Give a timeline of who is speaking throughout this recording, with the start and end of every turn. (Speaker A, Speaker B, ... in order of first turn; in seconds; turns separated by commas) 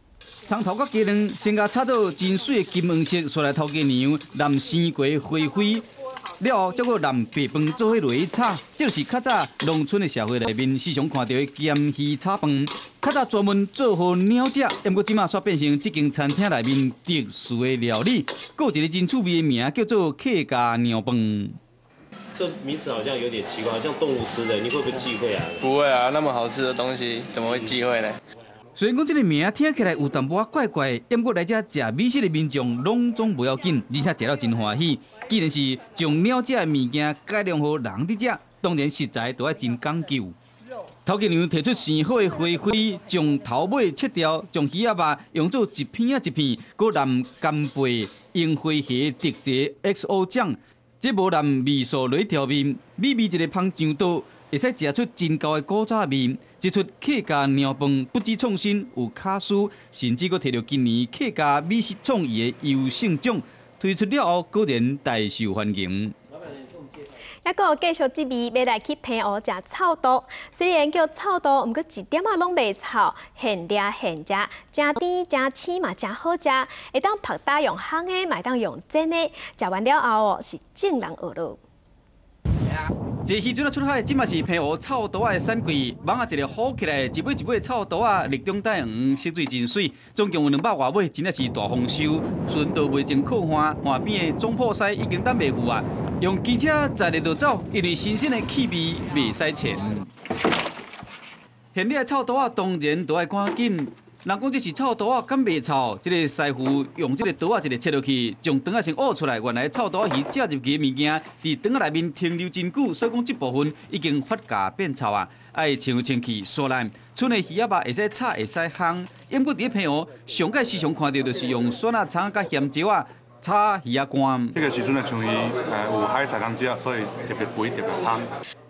Speaker A: 0.5-5.9, Speaker A: 6.4-21.6, Speaker B: 22.3-25.6, Speaker C: 25.6-28.2, Speaker A: 28.8-40.4, Speaker A: 41.0-66.1, Speaker D: 67.4-81.6, Speaker A: 83.2-100.1, Speaker A: 101.7-124.6, Speaker E: 124.5-128.3